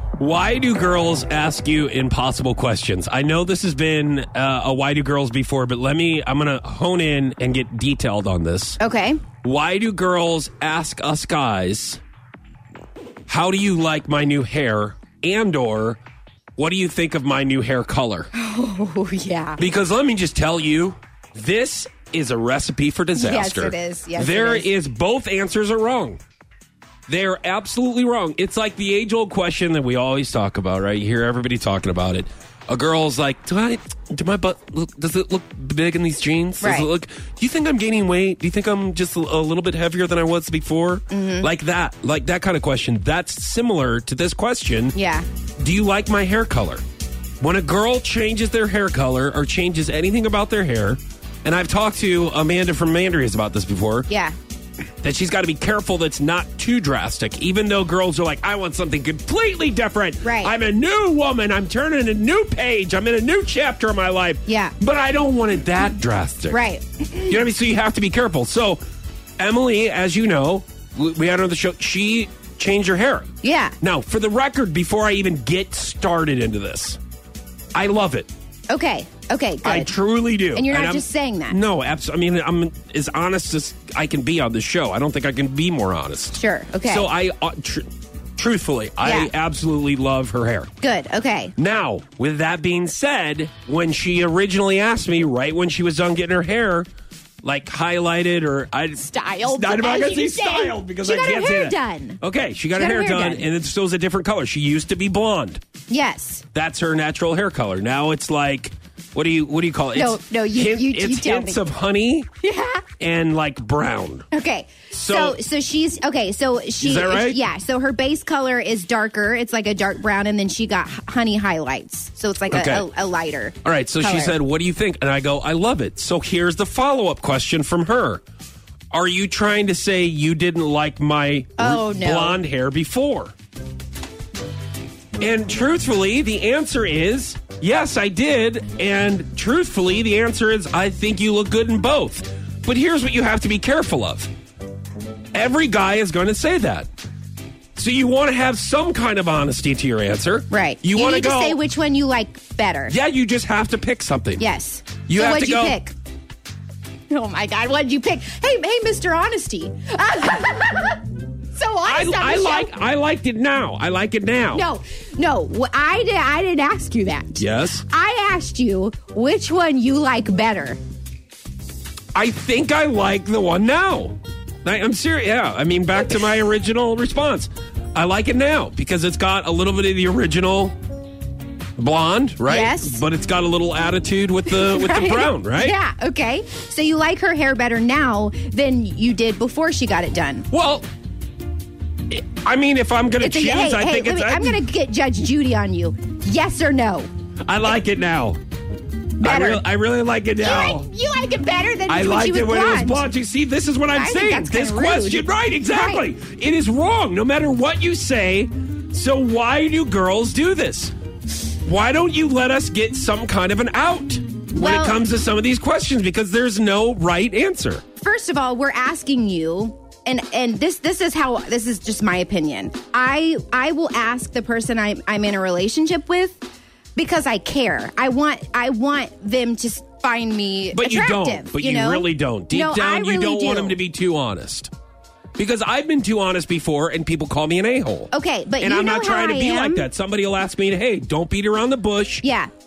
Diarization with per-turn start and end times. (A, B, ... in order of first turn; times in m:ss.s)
0:00.2-0:08.8 A
0:08.8-0:09.2 B
0:09.4-0:12.0 A
0:13.3-0:16.0 A
0:16.6-0:18.3 A
0:18.3-0:19.6 B
0:19.6-0:26.2 A
0:23.1-0:24.7 B
0:27.1-0:45.0 A
0:36.6-0:36.9 B
0:41.1-0:41.5 B
0:44.9-0:45.2 B
0:45.6-0:46.8 A
0:47.4-0:54.1 A
0:54.1-0:54.4 B
0:55.0-1:06.6 A
1:00.2-1:00.5 B
1:04.4-1:04.7 B
1:06.5-1:07.4 B
1:07.3-1:08.8 A
1:09.4-1:13.3 A
1:13.4-1:13.8 B
1:13.8-1:17.0 A
1:17.7-1:18.3 A
1:18.7-1:19.9 B
1:19.6-1:30.7 A
1:20.5-1:21.6 B
1:26.3-1:27.1 B
1:29.0-1:29.3 B
1:30.8-1:31.5 B
1:31.6-1:36.9 A
1:37.4-1:45.6 A
1:39.0-1:42.2 B
1:42.7-1:43.4 B
1:45.9-1:46.4 B
1:46.5-1:52.3 A
1:49.9-1:51.6 B
1:52.4-1:52.8 B
1:53.0-1:54.3 A
1:54.3-2:04.4 B
1:54.9-1:55.4 A
1:56.8-1:57.4 A
2:02.5-2:02.8 A
2:03.6-2:08.2 A
2:08.9-2:13.3 A
2:11.6-2:12.4 B
2:15.2-2:24.3 A
2:25.3-2:26.9 A
2:27.7-2:31.6 A
2:30.5-2:32.9 B
2:32.9-2:34.4 A
2:34.4-2:35.9 B
2:35.1-2:35.8 A
2:37.1-2:42.7 B
2:41.8-2:44.6 A
2:44.5-2:50.8 B
2:47.4-2:47.8 A
2:52.1-3:00.7 A
3:01.8-3:05.7 A
3:02.5-3:03.0 B
3:04.5-3:10.5 B
3:10.5-3:10.8 A
3:12.1-3:14.6 A
3:13.2-3:17.1 B
3:17.4-3:18.4 A
3:19.2-3:20.8 A
3:19.2-3:19.6 B
3:20.4-3:23.0 B
3:21.9-3:30.9 A
3:23.9-3:26.0 B
3:31.6-3:37.8 A
3:34.6-3:35.0 B
3:38.0-3:53.8 B
3:50.7-3:54.7 A
3:55.4-4:02.2 A
3:58.1-3:59.9 B
4:02.2-4:02.5 B